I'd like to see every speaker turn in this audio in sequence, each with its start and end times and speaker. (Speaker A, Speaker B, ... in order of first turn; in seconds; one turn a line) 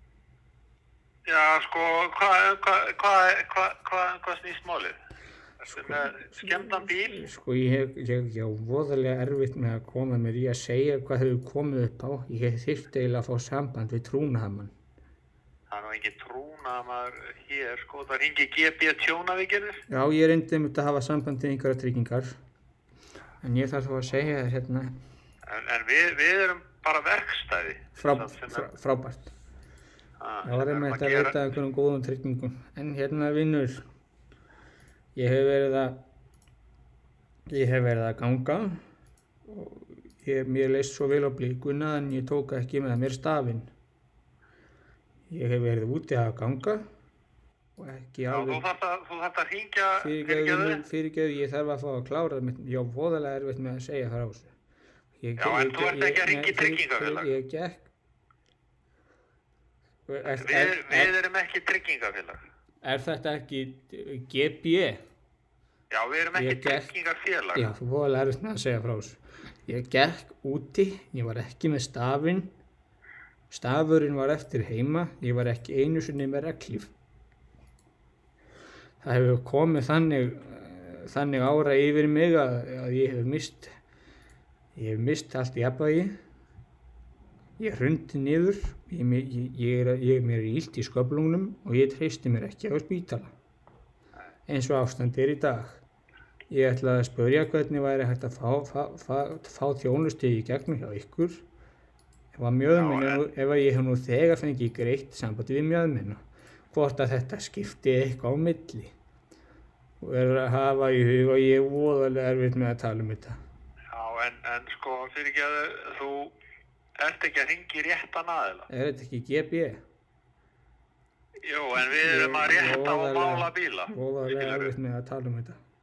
Speaker A: 1.3-4.9
Speaker A: 5.6-7.2
Speaker B: 5.7-14.7
Speaker A: 15.7-19.8
Speaker B: 19.9-22.3
Speaker B: 23.4-24.9
Speaker A: 25.5-28.7
Speaker B: 28.0-29.3
Speaker A: 30.2-31.4
Speaker B: 30.4-33.8
Speaker B: 35.1-36.0
Speaker B: 37.5-38.8
Speaker B: 39.5-43.7
Speaker B: 45.3-46.8
Speaker B: 47.8-48.6
Speaker A: 48.3-50.8
Speaker B: 50.0-54.5
Speaker B: 55.2-57.9
Speaker A: 55.4-57.3
Speaker B: 60.1-61.1
Speaker A: 60.4-62.4
Speaker B: 62.8-65.0
Speaker A: 65.9-67.7
Speaker B: 66.3-66.9
Speaker B: 67.5-72.5
Speaker B: 73.5-76.9
Speaker B: 79.0-83.7
Speaker B: 84.7-86.2
Speaker B: 87.6-93.3
Speaker B: 94.5-95.8
Speaker B: 96.5-101.4
Speaker B: 102.3-108.9
Speaker A: 102.7-103.2
Speaker B: 110.0-113.4
Speaker A: 113.9-116.3
Speaker A: 117.0-118.7
Speaker B: 118.7-119.8
Speaker A: 121.4-124.7
Speaker B: 121.9-125.6